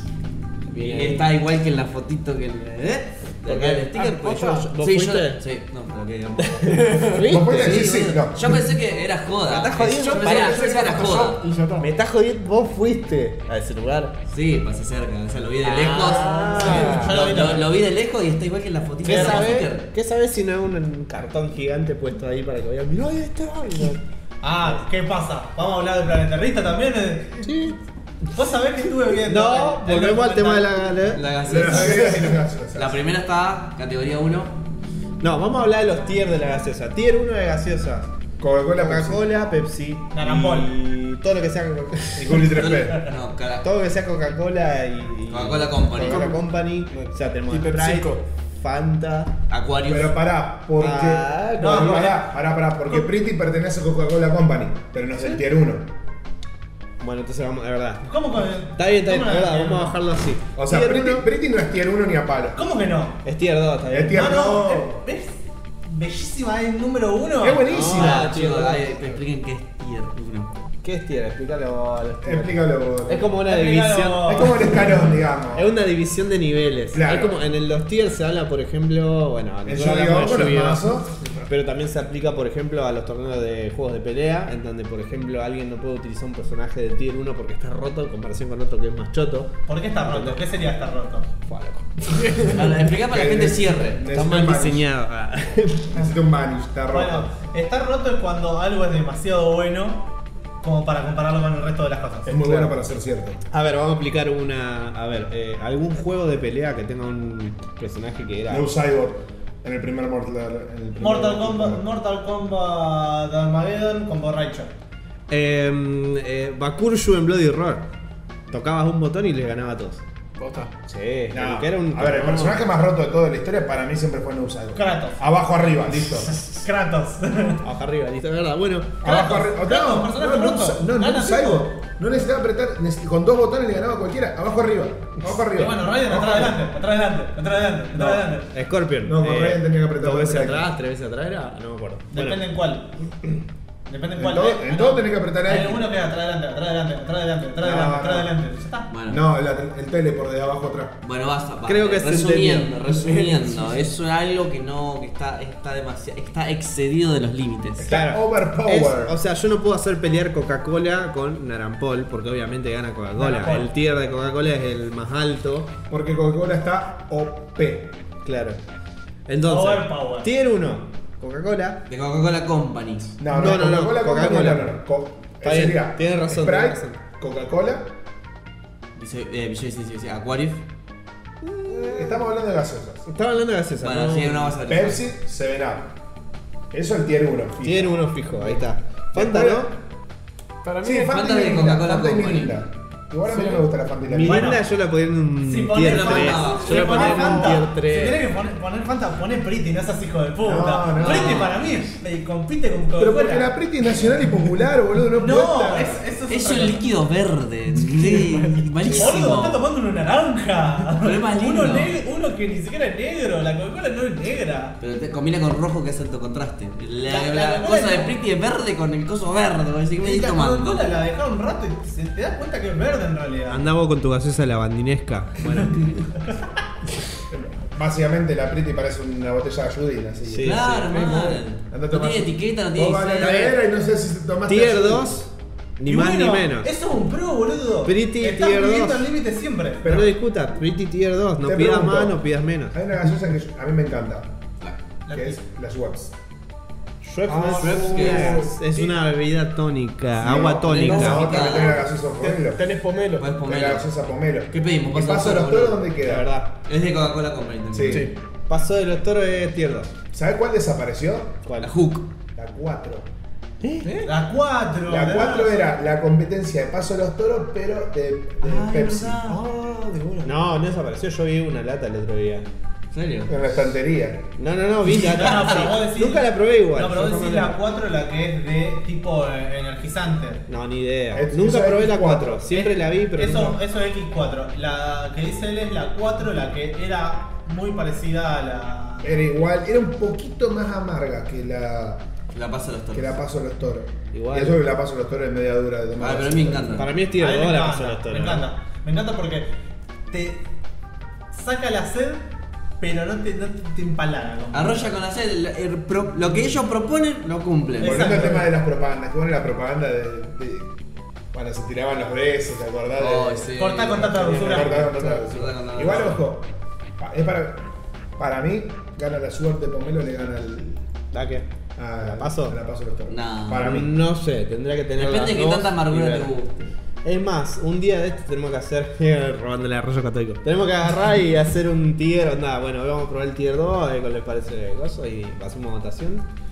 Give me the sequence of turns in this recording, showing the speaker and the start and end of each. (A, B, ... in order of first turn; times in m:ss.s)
0:00.7-0:01.3 A
0:00.8-0:06.8 B
0:03.4-0:05.4 A
0:04.0-0:04.7 C
0:06.4-0:08.0 A
0:06.6-0:07.3 C
0:07.2-0:08.6 D
0:07.4-0:11.4 B
0:09.4-0:14.1 A
0:09.8-0:11.9 C
0:14.2-0:19.9 B
0:15.6-0:17.4 A
0:15.8-0:17.0 C
0:16.5-0:17.8 E
0:16.6-0:17.1 D
0:19.0-0:24.0 A
0:19.0-0:19.7 C
0:24.4-0:27.5 E
0:27.4-0:27.8 A
0:28.3-0:31.0 E
0:29.2-0:32.0 A
0:31.1-0:34.6 B
0:31.4-0:33.0 D
0:35.2-0:38.1 A
0:38.4-0:39.2 D
0:38.7-0:42.6 A
0:40.1-0:40.7 E
0:42.1-0:43.0 D
0:42.5-0:43.6 B
0:43.6-0:49.3 A
0:45.3-0:46.4 B
0:46.0-0:48.2 C
0:49.5-0:50.1 B
0:49.9-0:55.9 D
0:50.8-0:52.1 A
0:51.6-0:52.3 E
0:57.0-0:58.1 A
0:58.0-0:59.9 E
0:58.7-1:01.3 A
1:00.6-1:02.6 D
1:02.6-1:03.2 E
1:03.2-1:04.4 A
1:03.9-1:05.0 D
1:04.1-1:08.2 E
1:07.4-1:08.4 D
1:07.6-1:09.0 A
1:07.9-1:10.6 B
1:10.8-1:14.8 A
1:12.2-1:13.4 D
1:13.4-1:14.5 E
1:14.2-1:15.7 D
1:15.5-1:30.4 A
1:16.9-1:17.4 D
1:19.6-1:21.2 D
1:29.7-1:31.3 E
1:31.4-1:32.6 A
1:32.1-1:32.6 C
1:32.5-1:34.0 B
1:33.0-1:34.9 D
1:34.1-1:36.1 A
1:35.9-1:37.3 D
1:36.9-1:40.1 E
1:40.6-1:42.6 E
1:42.2-1:43.4 D
1:43.5-1:48.7 A
1:48.5-1:51.8 D
1:51.0-1:54.7 E
1:55.3-1:57.9 A
1:58.5-2:00.0 A
2:00.4-2:00.7 C
2:00.8-2:02.6 A
2:01.3-2:06.3 D
2:04.7-2:05.2 E
2:06.4-2:07.6 E
2:07.6-2:09.0 A
2:09.0-2:16.6 D
2:09.0-2:11.7 E
2:15.5-2:18.5 E
2:17.9-2:18.2 D
2:18.5-2:22.5 A
2:19.0-2:20.6 D
2:22.1-2:23.0 E
2:23.9-2:28.9 E
2:24.2-2:25.9 D
2:27.6-2:28.3 D
2:28.9-2:29.2 B
2:29.1-2:31.0 D
2:31.0-2:37.9 B
2:31.6-2:33.5 A
2:37.8-2:39.2 D
2:37.9-2:45.7 A
2:43.1-2:43.7 E
2:45.9-2:47.9 D
2:48.2-2:48.6 A
2:49.3-2:51.8 A
2:49.4-2:50.3 E
2:51.9-2:53.2 B
2:53.2-2:57.9 D
2:53.3-2:54.8 A
2:55.4-2:57.0 A
2:59.0-3:00.6 B
3:01.4-3:02.3 A
3:01.7-3:03.0 D
3:03.0-3:04.6 A
3:03.8-3:05.0 B
3:04.6-3:05.9 D
3:06.7-3:09.7 D
3:07.6-3:09.7 A
3:10.6-3:11.1 C
3:10.8-3:14.6 D
3:11.0-3:12.6 B
3:13.3-3:13.7 C
3:14.0-3:18.2 A
3:14.2-3:14.6 E
3:15.4-3:23.5 E
3:15.8-3:17.7 B
3:20.4-3:21.5 D
3:20.9-3:21.6 B
3:23.0-3:26.0 D
3:25.2-3:26.9 E
3:26.3-3:29.6 B
3:28.0-3:28.6 C
3:29.0-3:34.8 E
3:31.0-3:32.0 B
3:34.8-3:40.9 B
3:37.1-3:38.1 E
3:40.0-3:43.6 E
3:43.5-3:46.1 A
3:47.3-3:55.2 D
3:50.2-3:50.9 A
3:50.4-3:53.6 B
3:53.2-3:53.6 A
3:54.4-3:56.7 A
3:55.8-4:00.1 E
3:57.8-3:59.1 A
3:59.8-4:02.8 A
4:01.4-4:02.2 D
4:02.7-4:04.3 D
4:05.0-4:05.4 E
4:05.1-4:06.1 D
4:07.0-4:11.5 A
4:07.2-4:08.9 C
4:07.5-4:08.4 B
4:10.2-4:12.6 D
4:10.6-4:11.6 C
4:10.7-4:11.8 B
4:12.2-4:13.3 C
4:13.2-4:13.9 B
4:13.4-4:16.3 D
4:14.5-4:15.9 B
4:16.0-4:16.6 A
4:16.6-4:18.1 B
4:17.7-4:18.1 D
4:17.9-4:18.2 C
4:18.4-4:19.9 A
4:20.1-4:21.4 D
4:21.4-4:21.7 A
4:21.6-4:22.1 B
4:22.3-4:23.1 D
4:23.6-4:24.0 A
4:24.0-4:25.7 E
4:24.8-4:29.3 D
4:28.4-4:29.4 B
4:30.2-4:32.5 A
4:32.9-4:33.3 B
4:33.3-4:34.3 D
4:34.4-4:37.6 A
4:34.8-4:35.7 B
4:34.9-4:40.4 E
4:40.5-4:43.6 A
4:41.1-4:42.5 D
4:42.5-4:49.2 E
4:49.0-4:52.0 D
4:52.3-4:53.2 B
4:52.9-4:56.9 D
4:54.1-4:54.6 A
4:56.0-4:56.9 B
4:56.8-4:58.5 A
4:57.1-4:59.5 E
5:00.1-5:00.4 E
5:01.3-5:02.2 E
5:02.8-5:04.9 E
5:04.5-5:08.2 B
5:07.8-5:08.5 E
5:07.8-5:10.8 D
5:11.3-5:17.6 D
5:13.0-5:16.2 B
5:13.6-5:14.8 E
5:14.3-5:14.9 A
5:18.2-5:20.8 D
5:21.1-5:22.6 A
5:21.8-5:24.0 D
5:23.1-5:23.8 B
5:23.6-5:26.3 A
5:25.0-5:26.7 B
5:27.0-5:36.3 A